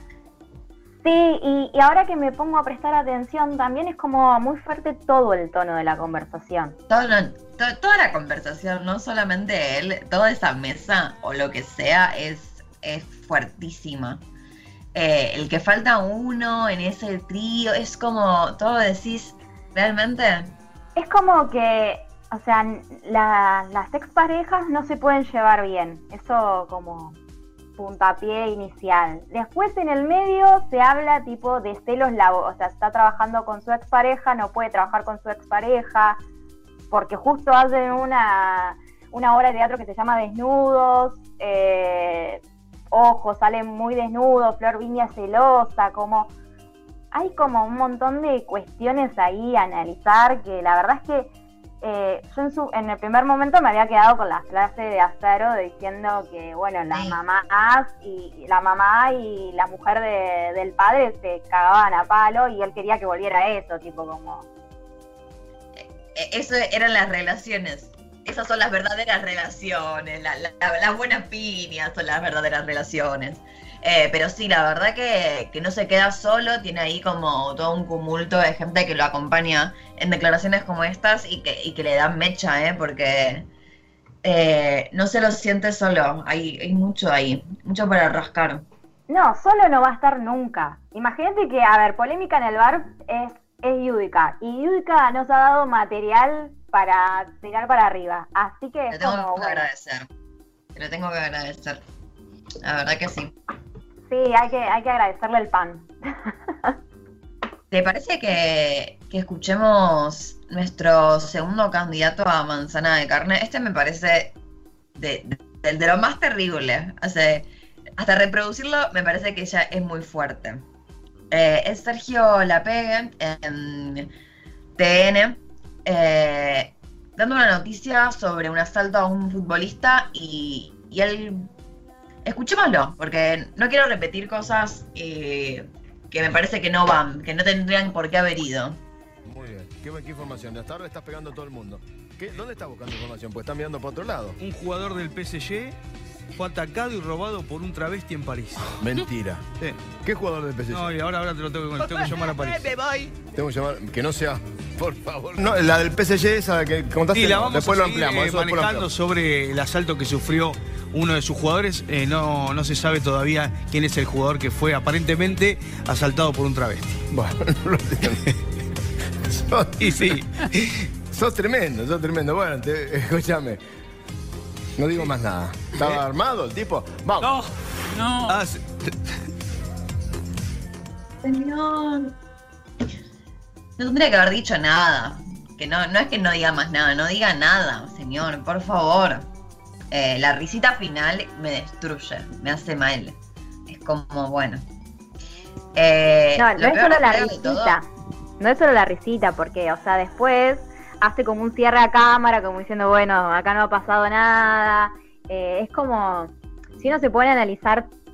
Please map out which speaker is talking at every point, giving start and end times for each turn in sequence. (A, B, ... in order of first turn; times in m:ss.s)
0:01.0-0:06.8 A
0:06.9-0:14.2 B
0:14.9-0:20.5 B
0:21.0-0:27.2 A
0:27.8-0:36.2 A
0:36.9-0:46.3 A
0:47.1-0:51.3 A
0:51.8-1:04.4 A
0:56.9-0:57.2 B
1:05.8-1:23.5 B
1:24.2-1:28.6 B
1:29.1-1:39.6 A
1:38.9-1:40.1 B
1:40.7-1:41.8 B
1:42.6-1:43.3 B
1:44.1-1:46.7 A
1:47.7-1:54.3 B
1:55.0-1:57.5 B
1:58.0-2:00.6 B
2:01.3-2:04.1 B
2:04.8-2:11.5 B
2:12.2-2:18.8 B
2:19.3-2:24.4 C
2:24.4-2:25.8 D
2:26.4-2:28.7 D
2:28.6-2:30.9 C
2:30.7-2:32.7 D
2:31.8-2:33.0 E
2:33.3-2:38.9 C
2:37.1-2:47.0 D
2:47.1-2:48.2 C
2:49.4-2:50.4 C
2:49.8-2:50.5 D
2:51.1-2:53.6 C
2:54.8-2:57.4 C
2:57.2-2:58.4 E
2:58.3-2:58.9 D
3:01.2-3:02.1 B
3:03.8-3:09.3 B
3:09.9-3:14.6 B
3:15.7-3:17.8 B
3:16.4-3:17.8 A
3:18.4-3:27.9 A